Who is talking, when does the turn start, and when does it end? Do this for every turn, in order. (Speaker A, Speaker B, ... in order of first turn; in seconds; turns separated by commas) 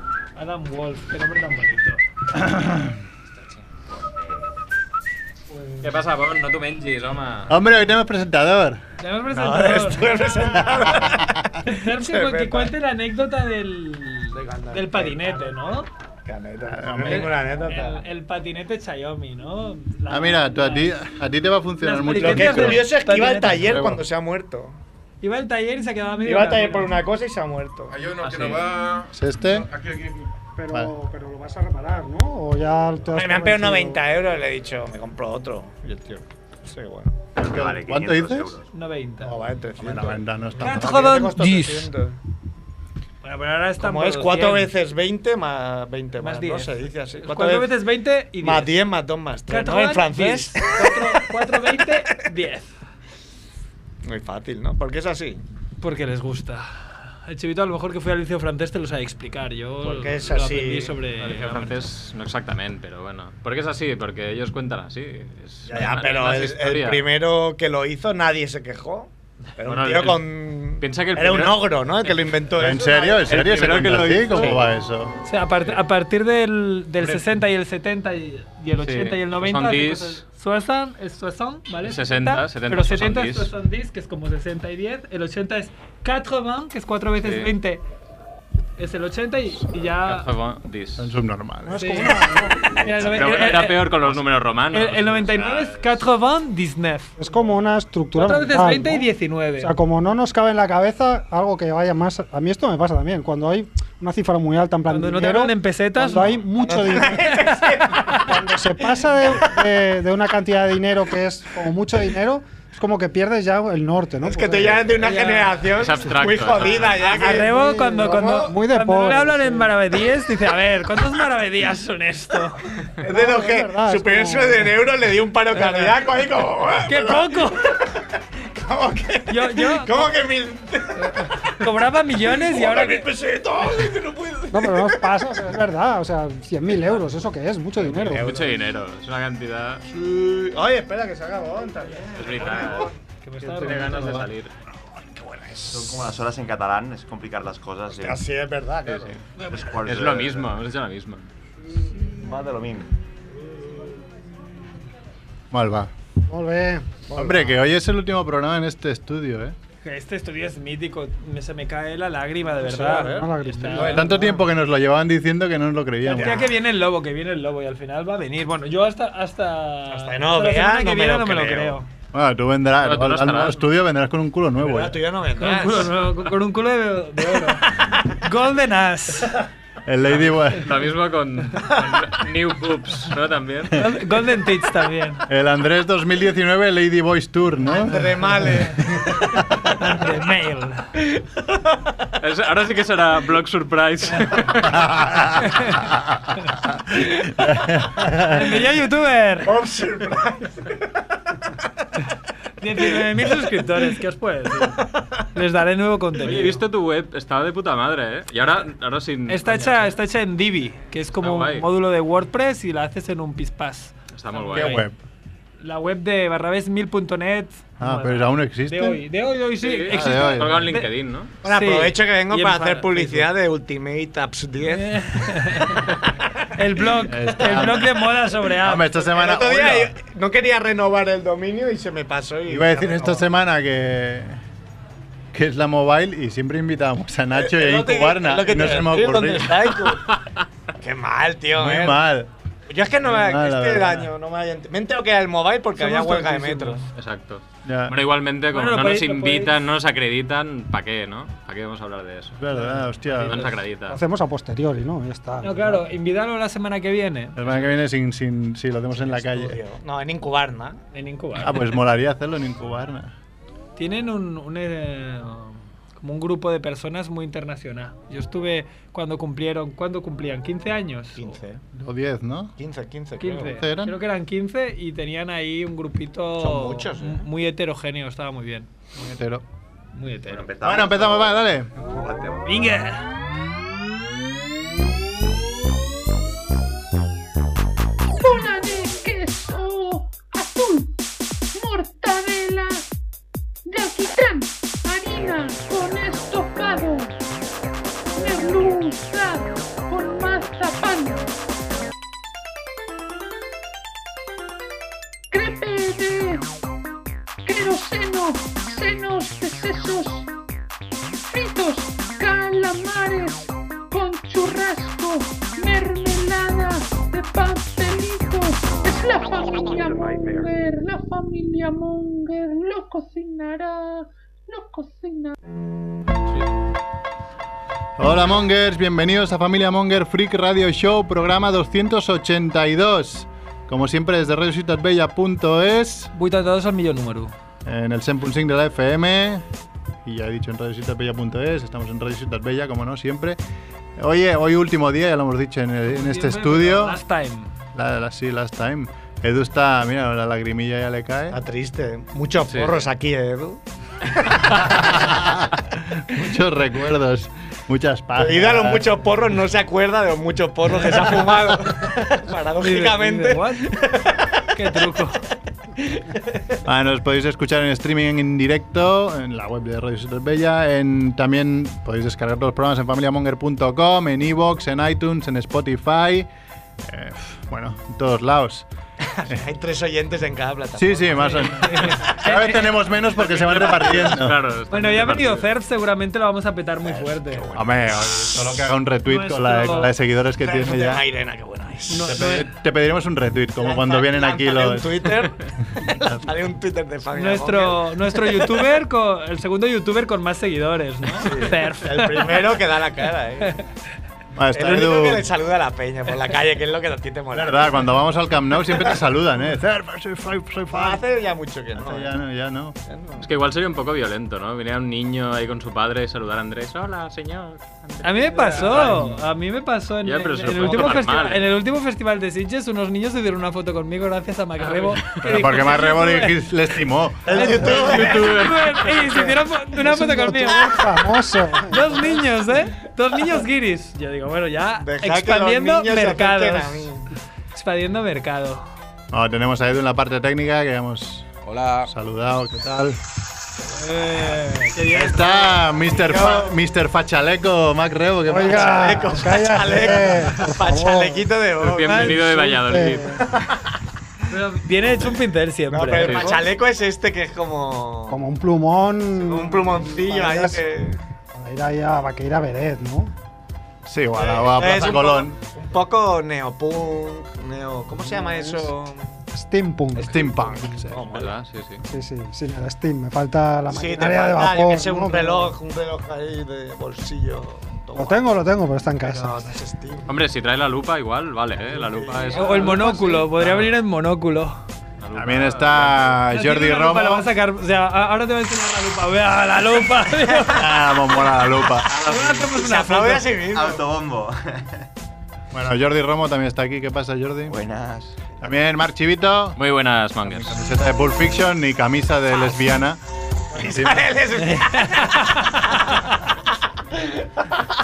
Speaker A: 0.3-2.0, Speaker B: 2.3-3.0, Speaker C: 5.8-7.5, Speaker B: 7.5-8.8, Speaker A: 9.0-10.3, Speaker D: 9.3-12.7, Speaker B: 10.8-11.3, Speaker A: 11.6-15.9, Speaker D: 14.3-15.6, Speaker D: 16.2-18.0, Speaker B: 16.6-17.3, Speaker A: 17.1-20.9, Speaker B: 20.1-22.9, Speaker A: 21.8-23.6, Speaker D: 22.1-24.8, Speaker B: 23.5-24.0, Speaker A: 25.2-26.9, Speaker D: 26.2-27.9, Speaker E: 27.9-30.3, Speaker C: 28.2-28.6, Speaker B: 29.1-29.7, Speaker F: 30.6-34.0, Speaker D: 33.1-37.2, Speaker B: 37.4-38.6, Speaker G: 37.5-38.7, Speaker A: 38.7-39.3, Speaker D: 39.2-42.2, Speaker B: 39.8-41.2, Speaker A: 40.6-41.9, Speaker A: 43.2-44.7, Speaker D: 43.8-47.7, Speaker A: 46.2-48.7, Speaker D: 48.4-51.9, Speaker A: 49.5-52.7, Speaker D: 54.0-55.4, Speaker A: 55.8-61.8, Speaker D: 59.8-61.0, Speaker C: 61.2-67.0, Speaker D: 65.7-73.4, Speaker C: 69.7-71.7, Speaker B: 72.5-75.1, Speaker C: 73.3-74.6, Speaker A: 75.2-87.8, Speaker C: 78.8-80.2, Speaker C: 81.8-83.5, Speaker C: 87.2-87.5, Speaker A: 88.8-90.3, Speaker C: 90.0-91.1, Speaker B: 91.0-92.0, Speaker F: 91.6-93.2, Speaker A: 91.7-93.9, Speaker C: 93.1-95.9, Speaker A: 94.7-97.1, Speaker F: 97.2-99.1, Speaker A: 98.1-99.7, Speaker F: 99.6-107.3, Speaker A: 104.9-106.3, Speaker D: 106.6-108.4, Speaker A: 107.2-108.3, Speaker F: 108.1-114.9, Speaker D: 109.3-109.7, Speaker D: 114.2-118.5, Speaker A: 115.0-115.7, Speaker C: 115.8-117.2, Speaker A: 117.0-122.7, Speaker F: 117.2-119.7, Speaker D: 123.0-127.8, Speaker F: 123.1-124.7, Speaker A: 125.6-125.9, Speaker A: 126.8-127.7, Speaker D: 128.5-131.7, Speaker A: 129.3-130.1, Speaker A: 131.5-133.1, Speaker D: 132.2-135.2, Speaker F: 134.5-138.3, Speaker D: 137.8-138.7, Speaker C: 138.2-139.8, Speaker D: 139.9-142.9, Speaker C: 142.1-142.9, Speaker A: 143.2-143.9, Speaker C: 143.5-144.5, Speaker D: 143.7-146.1, Speaker G: 145.7-148.2, Speaker D: 147.9-149.4, Speaker C: 148.8-151.3, Speaker G: 149.5-150.6, Speaker G: 152.2-152.9, Speaker B: 155.5-155.9, Speaker F: 156.3-157.1, Speaker D: 157.1-157.6, Speaker B: 157.1-159.6, Speaker A: 159.8-164.1, Speaker D: 162.5-164.3, Speaker F: 162.9-164.3, Speaker B: 163.7-166.5, Speaker A: 166.0-171.9, Speaker D: 166.2-166.5, Speaker D: 169.9-171.8, Speaker B: 172.1-175.0, Speaker C: 172.8-173.7, Speaker D: 174.6-176.0, Speaker A: 175.4-179.4, Speaker D: 177.4-178.1, Speaker B: 179.8-180.8, Speaker C: 180.5-183.8, Speaker A: 183.7-185.2, Speaker B: 185.3-189.4, Speaker D: 187.8-189.0, Speaker A: 189.6-190.9, Speaker C: 192.2-194.8, Speaker B: 194.7-195.4, Speaker A: 195.4-195.7, Speaker B: 197.3-198.6, Speaker A: 198.3-199.5, Speaker D: 199.4-200.9, Speaker A: 202.6-206.6, Speaker C: 206.2-209.9, Speaker A: 209.3-214.8, Speaker C: 211.2-211.7, Speaker C: 214.1-214.8, Speaker B: 214.5-215.0, Speaker A: 215.6-220.9, Speaker B: 217.8-219.0, Speaker C: 219.6-221.3, Speaker B: 219.9-220.7, Speaker D: 221.4-226.3, Speaker A: 221.4-223.3, Speaker A: 224.7-225.9, Speaker A: 226.5-229.0, Speaker B: 227.0-229.9, Speaker D: 229.0-233.2, Speaker B: 232.5-234.4, Speaker B: 235.3-239.7, Speaker D: 237.3-240.1, Speaker D: 240.8-242.0, Speaker B: 241.5-242.3, Speaker D: 242.7-246.8, Speaker B: 243.0-244.1, Speaker A: 245.8-246.8, Speaker C: 246.9-252.4, Speaker B: 247.6-248.0, Speaker A: 248.5-249.5, Speaker B: 252.4-253.5, Speaker C: 253.2-254.0, Speaker F: 253.9-255.8, Speaker A: 255.4-257.4, Speaker B: 257.4-259.6, Speaker D: 259.0-260.8, Speaker A: 260.9-261.6, Speaker B: 261.4-263.1, Speaker A: 263.8-271.4, Speaker D: 271.1-271.6, Speaker B: 271.7-272.6, Speaker D: 272.6-273.6, Speaker A: 273.2-278.7, Speaker B: 273.3-273.9, Speaker D: 276.4-277.2, Speaker B: 278.9-279.4, Speaker A: 279.9-280.5, Speaker G: 280.2-281.4, Speaker B: 280.6-281.7, Speaker D: 281.9-282.4, Speaker G: 282.0-282.4, Speaker A: 282.4-283.1, Speaker H: 288.2-290.9, Speaker H: 291.5-292.9, Speaker H: 293.7-297.2, Speaker H: 298.1-301.3, Speaker H: 305.3-306.4, Speaker H: 307.4-310.3, Speaker H: 311.3-325.3, Speaker B: 328.0-336.1, Speaker A: 336.1-337.3, Speaker B: 337.6-339.4, Speaker B: 340.0-343.4, Speaker B: 344.0-347.0, Speaker A: 345.9-347.5, Speaker B: 347.7-351.4, Speaker D: 351.3-353.6, Speaker C: 352.5-352.9, Speaker B: 354.5-359.0, Speaker D: 358.1-364.8, Speaker A: 362.6-363.8, Speaker A: 364.5-365.2, Speaker D: 365.8-366.6, Speaker B: 366.6-376.3, Speaker B: 376.8-378.7, Speaker D: 379.0-382.0, Speaker B: 380.8-384.4, Speaker A: 381.4-384.0, Speaker D: 383.4-383.9, Speaker C: 384.0-385.4, Speaker A: 384.7-387.4, Speaker D: 386.8-388.5, Speaker B: 387.5-391.0, Speaker A: 389.1-389.9, Speaker D: 390.4-392.3, Speaker A: 391.9-392.5, Speaker B: 392.1-395.1, Speaker D: 393.6-398.6, Speaker B: 395.8-396.2, Speaker A: 397.1-402.4, Speaker D: 401.1-403.6, Speaker B: 404.3-405.3, Speaker D: 404.5-407.9, Speaker B: 407.3-411.0, Speaker D: 408.7-409.0, Speaker D: 410.7-412.1, Speaker B: 411.7-412.8, Speaker D: 412.9-413.3, Speaker C: 413.2-418.8, Speaker A: 418.0-426.4, Speaker D: 418.3-419.0, Speaker B: 418.8-419.1, Speaker C: 420.0-421.5, Speaker C: 424.7-425.0, Speaker B: 425.2-428.4, Speaker D: 427.2-429.4, Speaker A: 427.3-430.9, Speaker C: 427.7-428.8, Speaker F: 429.8-432.2, Speaker A: 431.6-436.9, Speaker D: 434.8-437.1, Speaker A: 437.5-438.6, Speaker B: 439.1-441.3, Speaker E: 441.4-441.9, Speaker B: 441.9-443.0, Speaker A: 443.7-445.3, Speaker B: 444.8-449.2, Speaker D: 444.8-446.5, Speaker F: 448.3-451.2, Speaker D: 448.3-452.3, Speaker C: 451.6-453.2, Speaker A: 451.9-452.2, Speaker F: 452.3-453.2, Speaker A: 454.3-456.4, Speaker D: 455.7-458.2, Speaker C: 456.0-456.4, Speaker F: 458.1-460.7, Speaker D: 459.1-461.0, Speaker F: 461.3-463.1, Speaker B: 463.9-465.4, Speaker D: 464.1-469.1, Speaker F: 468.1-468.7, Speaker F: 469.3-470.2, Speaker D: 469.9-471.3, Speaker B: 470.0-471.2, Speaker C: 471.1-471.8, Speaker F: 471.8-475.5, Speaker D: 473.7-478.4, Speaker F: 477.9-479.5, Speaker D: 479.1-480.1, Speaker C: 480.1-482.8, Speaker D: 481.7-483.4, Speaker A: 482.3-484.6, Speaker C: 485.0-486.2, Speaker B: 485.1-487.3, Speaker A: 486.3-490.7, Speaker B: 490.5-491.9, Speaker D: 492.0-493.8, Speaker A: 492.1-493.4, Speaker C: 492.1-492.4, Speaker G: 493.4-494.9, Speaker B: 495.5-497.6, Speaker G: 497.5-498.3, Speaker B: 498.4-499.6, Speaker C: 499.6-500.6, Speaker B: 500.2-503.0, Speaker B: 503.5-504.1, Speaker D: 503.5-506.0, Speaker D: 506.9-507.3